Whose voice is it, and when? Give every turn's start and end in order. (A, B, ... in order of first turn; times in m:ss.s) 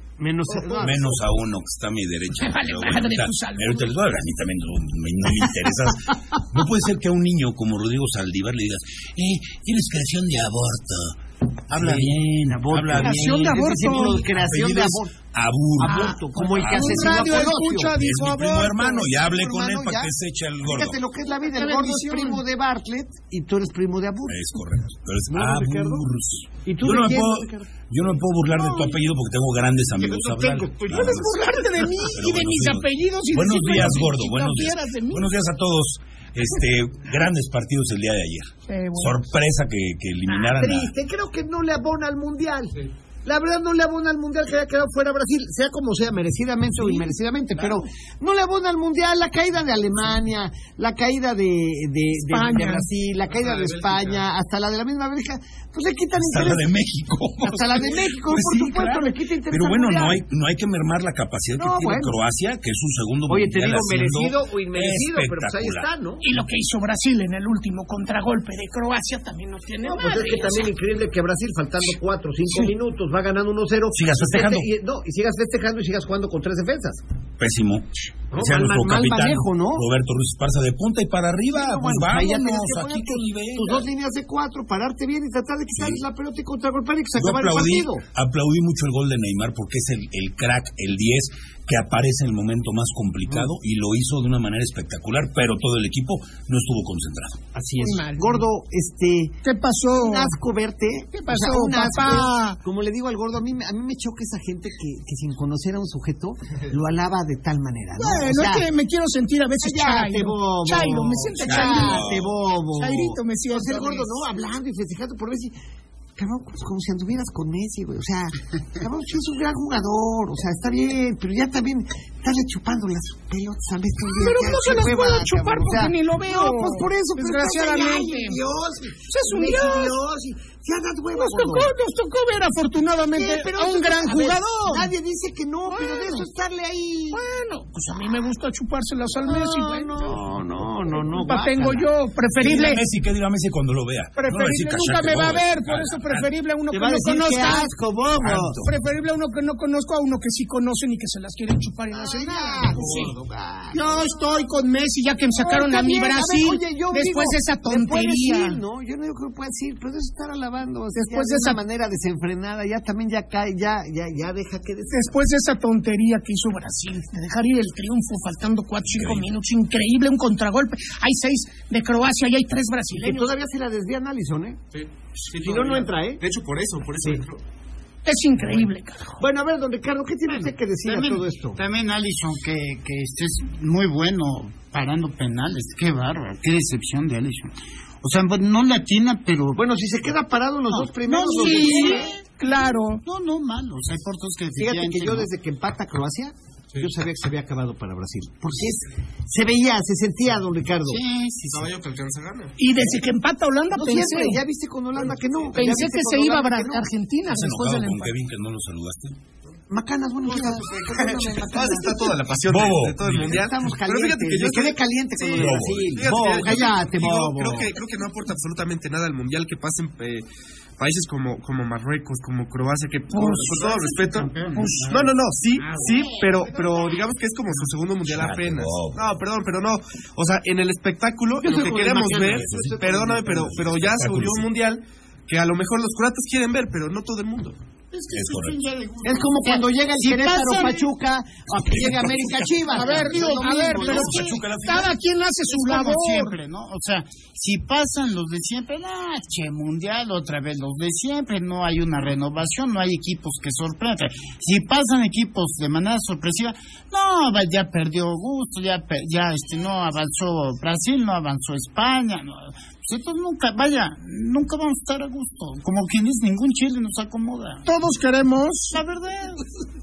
0:00.2-0:01.2 A
0:00.5-0:00.9 B
0:00.8-0:13.7 C
0:02.4-0:03.9 B
0:11.7-0:15.1 A
0:13.0-0:14.2 B
0:14.4-0:21.0 C
0:15.8-0:18.0 A
0:15.8-0:19.1 B
0:19.1-0:20.1 A
0:20.6-0:24.6 A
0:21.5-0:22.4 B
0:24.3-0:40.9 C
0:25.3-0:26.1 A
0:26.6-0:27.8 A
0:28.5-0:28.9 B
0:30.0-0:31.0 A
0:30.9-0:35.3 B
0:38.7-0:39.2 B
0:40.3-0:56.7 A
0:52.3-0:52.9 B
0:53.4-0:54.2 D
0:56.2-0:58.7 C
0:57.4-1:00.2 A
0:58.3-0:59.1 B
0:59.5-1:05.9 C
1:01.6-1:02.2 A
1:03.3-1:06.2 A
1:06.2-1:10.7 B
1:09.8-1:17.0 A
1:13.9-1:14.7 C
1:17.4-1:23.9 C
1:18.3-1:19.8 A
1:21.5-1:28.0 A
1:27.2-1:37.4 C
1:37.5-1:48.7 A
1:37.8-1:38.4 B
1:39.4-1:40.4 B
1:41.1-1:42.6 B
1:48.0-1:52.2 B
1:49.6-1:55.5 A
1:51.4-1:52.3 C
1:52.8-1:54.1 B
1:56.2-2:11.7 A
2:04.2-2:08.4 B
2:09.1-2:10.0 B
2:11.1-2:14.9 B
2:13.1-2:17.2 A
2:15.7-2:16.2 B
2:17.1-2:20.2 B
2:19.2-2:21.9 A
2:21.0-2:22.8 B
2:22.4-2:26.3 C
2:24.2-2:27.7 B
2:26.7-2:28.6 A
2:28.2-2:28.7 C
2:28.6-2:33.1 B
2:31.9-2:34.0 A
2:33.7-2:38.6 B
2:35.4-2:45.0 A
2:41.0-2:41.6 B
2:44.9-2:53.3 B
2:48.9-2:49.3 C
2:52.9-2:54.6 A
2:54.7-2:57.4 D
2:55.4-2:56.2 A
2:58.0-2:59.2 B
2:59.2-3:01.6 A
3:00.8-3:09.6 E
3:09.6-3:12.1 A
3:10.7-3:12.5 E
3:11.4-3:13.0 B
3:13.0-3:15.3 E
3:14.6-3:21.0 A
3:20.9-3:21.7 E
3:21.5-3:22.6 D
3:22.6-3:24.4 B
3:23.7-3:26.9 A
3:25.6-3:28.1 B
3:27.3-3:29.2 C
3:29.7-3:32.2 A
3:30.3-3:40.2 D
3:32.5-3:33.4 C
3:33.2-3:37.8 A
3:35.4-3:36.1 C
3:40.8-3:57.6 D
3:43.1-3:46.7 E
3:48.0-3:49.0 C
3:51.4-3:52.6 E
3:52.1-3:54.5 C
3:57.9-4:00.9 E
3:58.1-3:58.6 C
3:59.0-4:04.2 A
4:01.8-4:03.1 C
4:02.7-4:06.4 B
4:03.8-4:05.0 C
4:05.5-4:27.7 E
4:27.6-4:28.8 B
4:28.7-4:29.5 E